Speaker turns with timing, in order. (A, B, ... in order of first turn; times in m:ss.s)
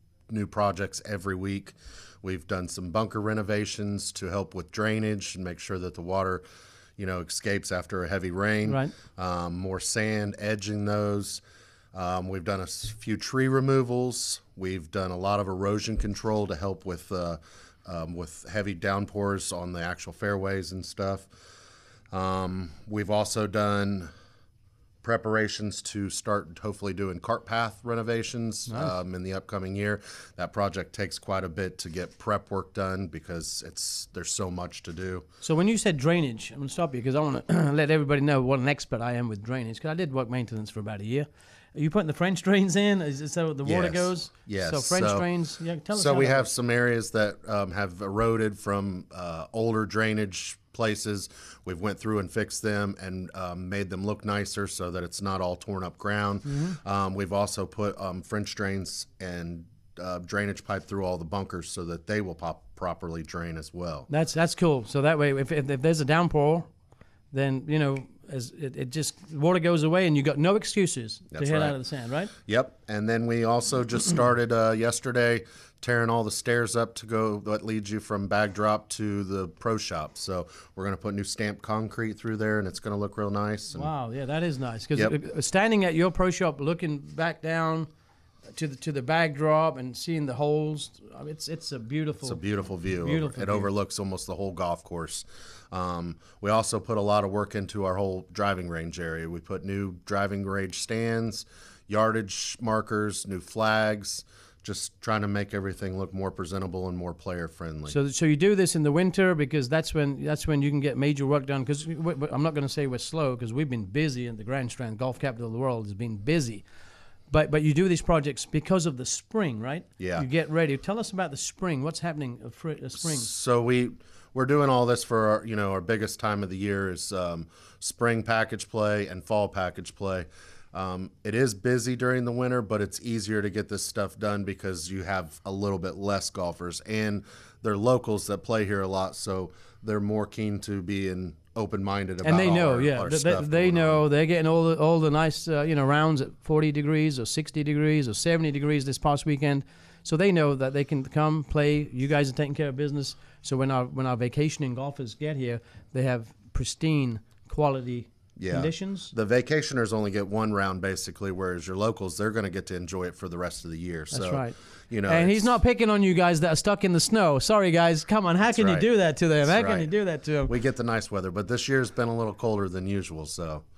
0:00.3-0:06.4 A
0:07.0-0:11.4 A
0:08.7-0:08.9 B
0:11.9-0:21.3 A
0:22.1-0:24.1 A
0:25.0-0:35.3 A
0:28.7-0:29.0 B
0:35.4-0:46.5 B
0:43.6-0:45.3 A
0:45.9-1:04.1 A
0:56.5-0:56.8 B
1:04.1-1:06.7 B
1:07.3-1:12.3 B
1:11.3-1:11.8 A
1:12.4-1:23.9 A
1:23.7-1:27.9 B
1:28.5-1:33.7 B
1:32.2-1:48.0 A
1:47.9-1:56.6 B
1:57.3-2:03.3 B
2:00.0-2:00.3 A
2:03.0-2:24.1 A
2:22.2-2:39.1 B
2:38.4-2:45.6 A
2:44.1-2:50.5 B
2:48.4-2:49.9 A
2:50.4-2:53.6 A